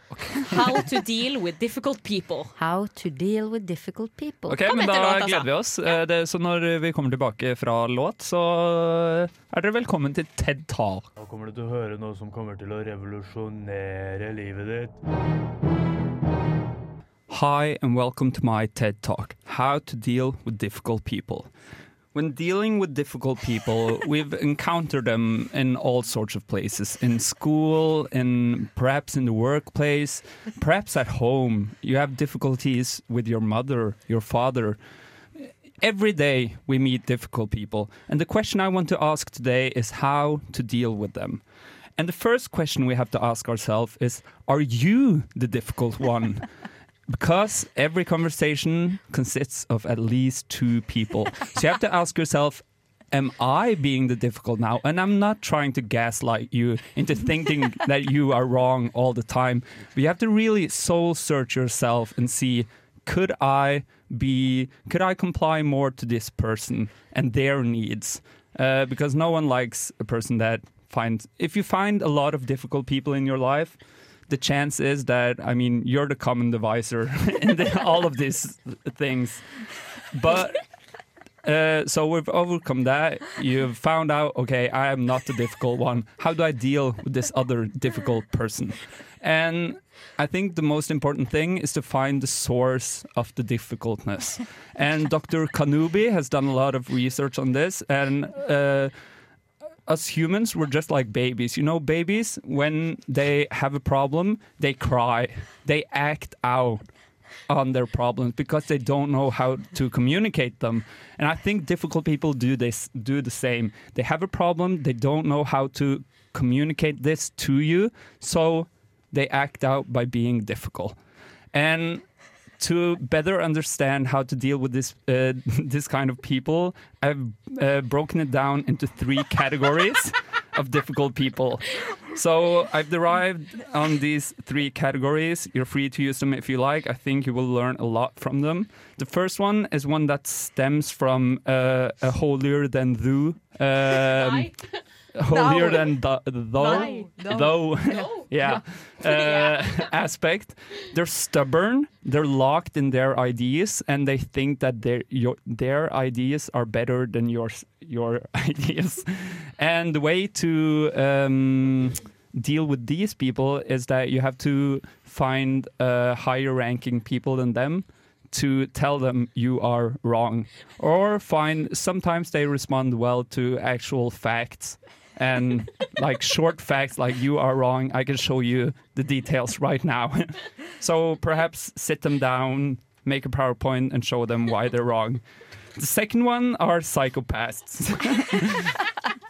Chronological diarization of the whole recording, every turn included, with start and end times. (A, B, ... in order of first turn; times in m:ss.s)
0:00.1-0:00.9 A
0:00.4-0:02.5 B
0:02.6-0:04.6 C
0:04.5-0:11.1 A
0:04.6-0:06.0 B
0:11.2-0:14.9 D
0:17.3-0:21.5 A
0:22.1-0:34.8 A
0:35.8-0:41.4 A
0:42.0-0:46.5 A
0:47.1-1:13.8 A
1:14.3-1:19.4 A
1:20.1-1:20.6 A
1:21.4-1:38.9 A
1:39.9-1:46.9 A
1:47.5-2:01.0 A
2:01.5-2:02.0 A
2:02.6-2:24.5 A
2:24.0-2:24.8 B
2:25.2-3:05.2 A
2:25.4-2:25.9 B
2:26.6-2:29.9 B
2:26.7-2:27.4 C
3:05.8-3:08.7 A